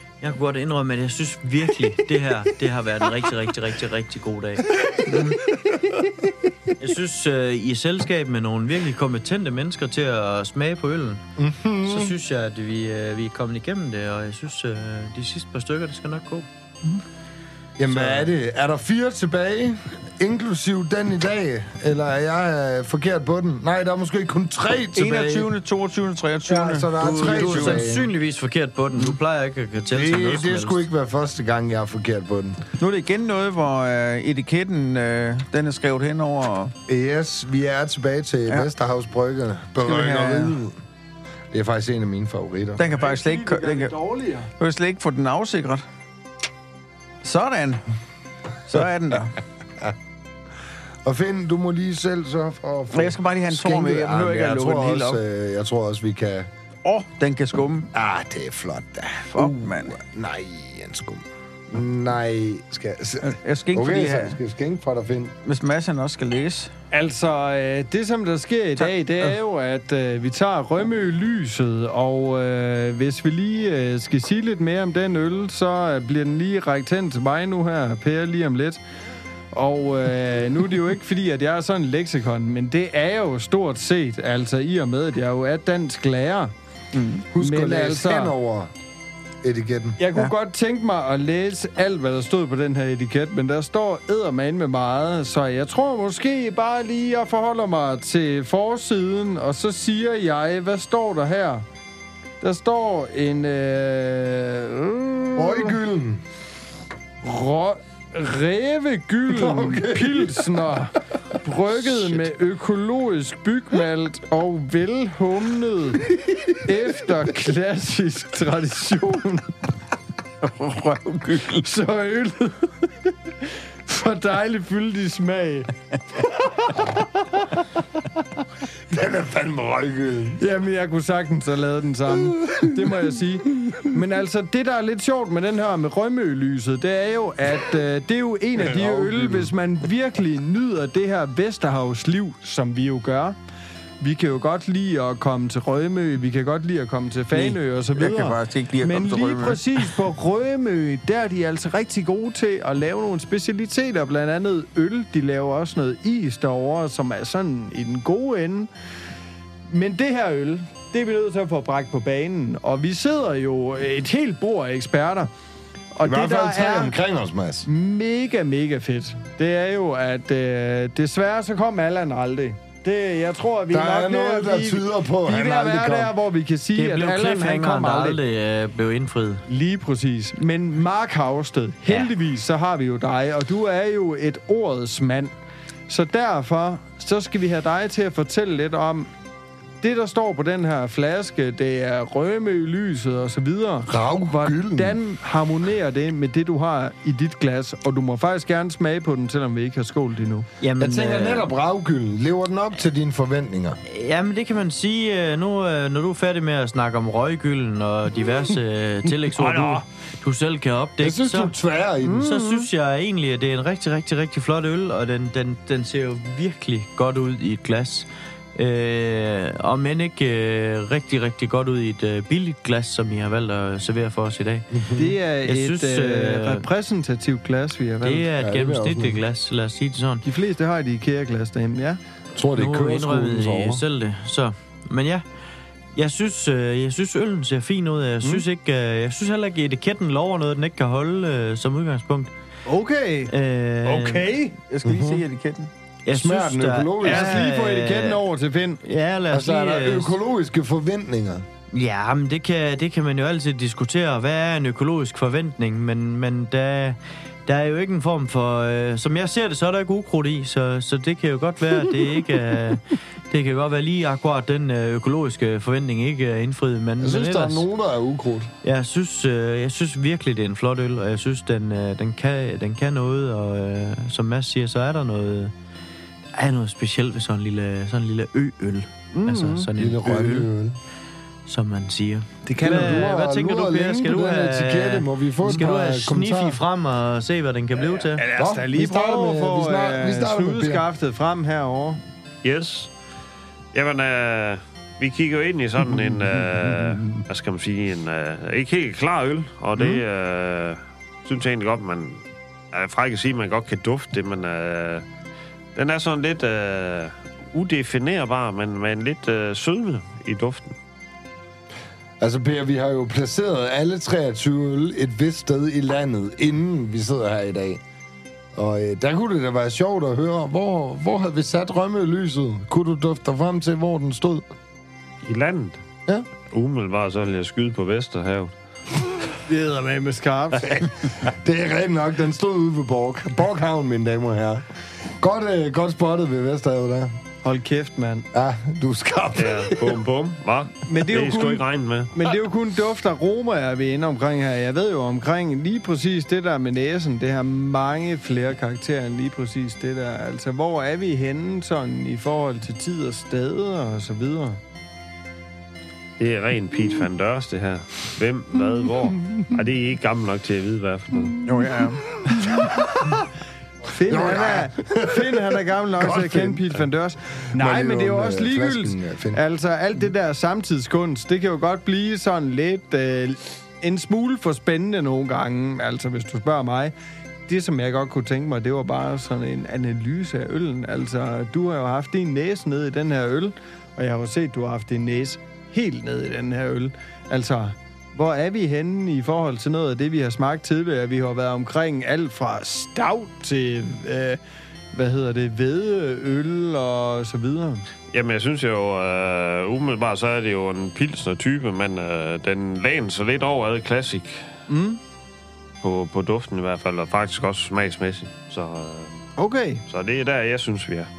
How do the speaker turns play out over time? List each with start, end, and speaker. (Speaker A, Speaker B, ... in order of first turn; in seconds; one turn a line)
Speaker A: 0.2-4.8
Speaker B: 5.1-5.4
Speaker A: 6.8-11.2
Speaker C: 11.4-12.2
Speaker A: 11.8-16.5
Speaker C: 17.8-25.5
Speaker A: 17.9-18.3
Speaker B: 24.9-27.9
Speaker C: 26.5-28.1
Speaker A: 27.0-30.9
Speaker C: 29.9-32.6
Speaker B: 32.8-36.7
Speaker C: 36.9-40.8
Speaker B: 39.8-40.6
Speaker C: 41.5-42.9
Speaker B: 42.8-44.0
Speaker D: 43.0-44.5
Speaker B: 44.6-45.8
Speaker B: 47.2-47.8
Speaker B: 48.7-49.4
Speaker C: 51.0-56.5
Speaker B: 52.9-55.2
Speaker B: 56.8-57.9
Speaker C: 57.9-65.3
Speaker B: 59.2-60.0
Speaker B: 63.2-64.4
Speaker B: 65.4-66.7
Speaker D: 66.9-78.8
Speaker B: 68.8-69.3
Speaker D: 79.5-86.5
Speaker B: 86.9-87.3
Speaker C: 87.3-88.7
Speaker D: 87.4-88.3
Speaker C: 89.4-90.0
Speaker D: 90.0-101.6
Speaker D: 102.4-105.8
Speaker C: 105.4-106.2
Speaker D: 107.2-116.0
Speaker C: 109.3-110.6
Speaker B: 111.7-112.2
Speaker D: 116.7-119.5
Speaker B: 120.4-121.7
Speaker D: 121.5-123.1
Speaker D: 123.9-127.6
Speaker C: 128.9-130.4
Speaker D: 130.4-143.3
Speaker C: 138.6-139.5
Speaker D: 144.0-158.7
Speaker B: 147.3-149.9
Speaker D: 159.7-165.3
Speaker D: 165.9-167.0
Speaker C: 166.0-167.7
Speaker D: 167.7-178.2
Speaker C: 173.7-176.1
Speaker A: 176.8-179.4
Speaker D: 179.5-185.3
Speaker D: 185.9-189.1
Speaker D: 189.8-200.5
Speaker C: 193.9-195.0
Speaker A: 200.6-201.5
Speaker C: 200.8-203.8
Speaker A: 203.9-211.5
Speaker C: 209.4-209.8
Speaker C: 211.0-212.3
Speaker D: 212.0-212.7
Speaker A: 212.2-224.7
Speaker C: 224.7-225.1
Speaker D: 225.0-228.3
Speaker A: 225.4-226.7
Speaker A: 228.0-230.2
Speaker C: 228.4-229.2
Speaker D: 230.2-232.0
Speaker C: 232.3-233.8
Speaker A: 232.5-235.2
Speaker A: 235.9-242.3
Speaker D: 242.7-243.3
Speaker A: 243.3-244.3
Speaker D: 243.8-244.6
Speaker B: 244.7-245.7
Speaker C: 244.8-245.2
Speaker A: 246.1-248.2
Speaker C: 246.1-247.4
Speaker D: 247.0-248.8
Speaker A: 248.8-250.1
Speaker C: 249.3-251.4
Speaker A: 251.7-267.7
Speaker C: 267.0-268.5
Speaker A: 268.6-275.5
Speaker A: 276.3-280.5
Speaker D: 279.1-279.7
Speaker C: 279.8-280.8
Speaker A: 281.5-288.2
Speaker C: 282.5-286.6
Speaker D: 282.6-283.0
Speaker D: 287.8-292.0
Speaker C: 288.4-290.9
Speaker E: 292.4-292.9
Speaker E: 293.7-305.1
Speaker D: 299.8-300.0
Speaker E: 305.8-310.7
Speaker C: 312.2-317.8
Speaker C: 318.6-324.4
Speaker E: 325.2-325.8
Speaker E: 326.5-328.5
Speaker D: 329.4-330.8
Speaker C: 330.6-334.6
Speaker C: 335.2-337.1
Speaker D: 337.4-338.2
Speaker C: 338.3-340.0
Speaker E: 339.4-342.1
Speaker D: 340.9-354.6
Speaker E: 356.2-361.4
Speaker B: 361.4-362.2
Speaker C: 362.3-363.2
Speaker D: 363.9-376.9
Speaker C: 364.1-366.8
Speaker C: 367.5-369.4
Speaker D: 377.5-394.4
Speaker D: 394.9-397.8
Speaker E: 398.1-404.5
Speaker D: 404.7-405.0
Speaker E: 405.8-409.1
Speaker D: 409.4-409.8
Speaker E: 409.9-411.1